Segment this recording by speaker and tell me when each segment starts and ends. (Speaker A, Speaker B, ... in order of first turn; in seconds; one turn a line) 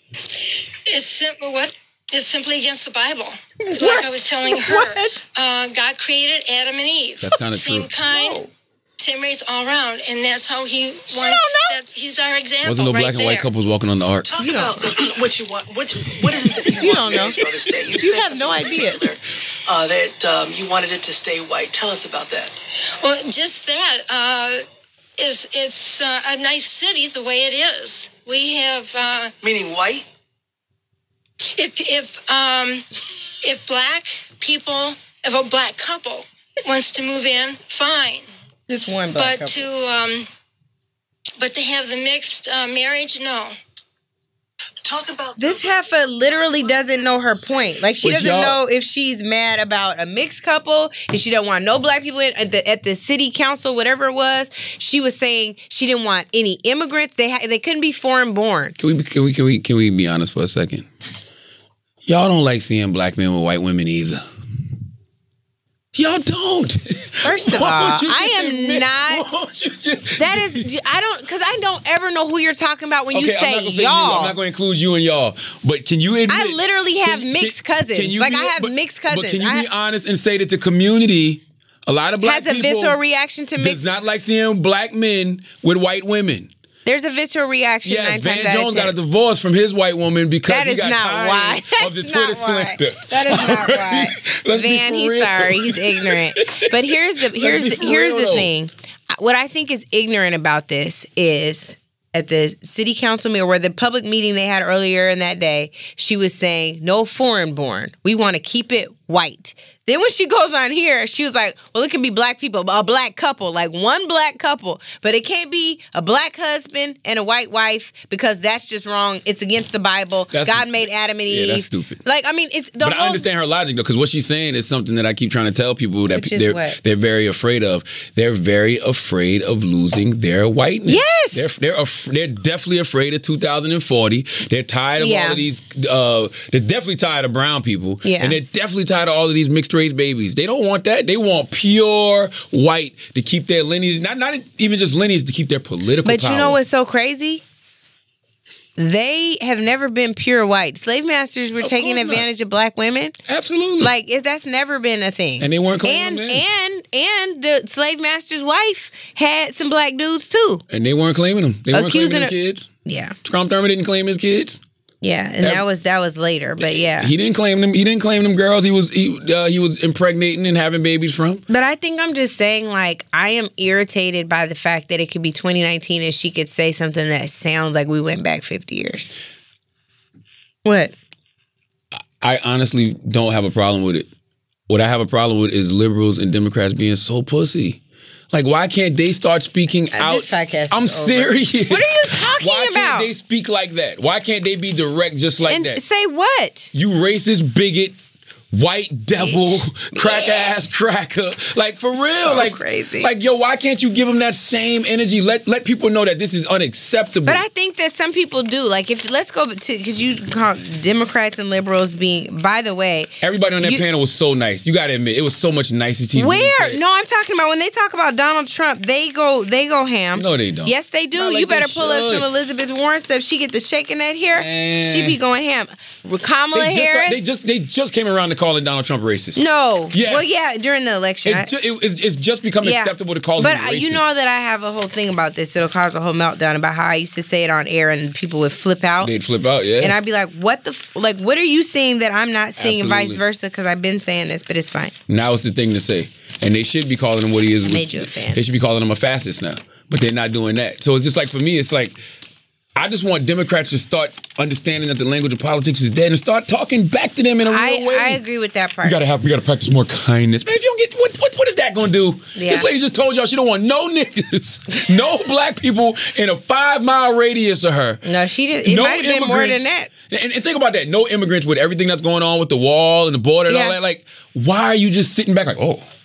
Speaker A: 0.9-8.4
Speaker B: 3.7-5.2
Speaker C: 7.2-7.9
Speaker B: 8.1-8.5
Speaker A: 9.0-13.5
Speaker B: 11.1-11.8
Speaker C: 12.6-14.3
Speaker D: 14.2-22.5
Speaker B: 14.4-14.9
Speaker B: 16.6-17.4
Speaker B: 18.0-19.1
Speaker A: 23.0-24.6
Speaker A: 25.2-29.3
Speaker D: 29.4-30.1
Speaker A: 31.5-32.8
Speaker A: 33.4-38.2
Speaker B: 38.7-39.7
Speaker A: 39.1-40.3
Speaker A: 41.4-43.5
Speaker D: 44.8-45.7
Speaker B: 45.4-58.8
Speaker C: 48.0-48.6
Speaker C: 58.8-60.9
Speaker C: 62.0-64.2
Speaker C: 65.9-70.7
Speaker B: 67.2-69.3
Speaker B: 70.2-74.3
Speaker C: 73.1-83.0
Speaker B: 76.3-79.7
Speaker B: 82.2-83.9
Speaker C: 83.6-86.5
Speaker B: 86.8-88.9
Speaker C: 87.8-98.5
Speaker B: 90.5-123.3
Speaker C: 120.3-122.0
Speaker C: 122.8-146.6
Speaker B: 126.1-126.8
Speaker B: 130.9-131.5
Speaker B: 135.0-135.4
Speaker B: 138.0-138.4
Speaker B: 146.0-147.4
Speaker B: 148.8-153.2
Speaker C: 151.6-152.3
Speaker C: 153.3-153.9
Speaker B: 153.8-160.6
Speaker C: 155.4-156.4
Speaker C: 160.7-162.7
Speaker B: 161.7-162.3
Speaker B: 162.8-163.2
Speaker C: 163.2-164.6
Speaker B: 165.0-167.1
Speaker C: 166.6-171.4
Speaker B: 171.5-179.1
Speaker B: 180.6-180.9
Speaker C: 182.2-184.1
Speaker C: 184.7-187.8
Speaker C: 188.3-195.8
Speaker B: 189.9-193.1
Speaker B: 195.5-196.7
Speaker C: 196.7-197.9
Speaker C: 198.5-207.4
Speaker B: 199.2-200.5
Speaker B: 202.2-203.1
Speaker B: 207.2-213.8
Speaker C: 213.2-216.8
Speaker B: 216.1-227.2
Speaker C: 220.1-222.3
Speaker C: 224.3-225.2
Speaker C: 226.5-230.3
Speaker B: 229.3-231.5
Speaker C: 231.2-234.0
Speaker B: 232.6-239.1
Speaker C: 239.0-239.9
Speaker B: 239.8-244.9
Speaker C: 242.6-243.2
Speaker C: 245.1-252.0
Speaker B: 247.6-248.4
Speaker C: 252.8-258.2
Speaker B: 257.4-259.0
Speaker C: 258.8-268.0
Speaker B: 262.4-262.7
Speaker B: 264.7-265.0
Speaker B: 268.0-269.9
Speaker C: 268.6-275.8
Speaker B: 273.5-273.8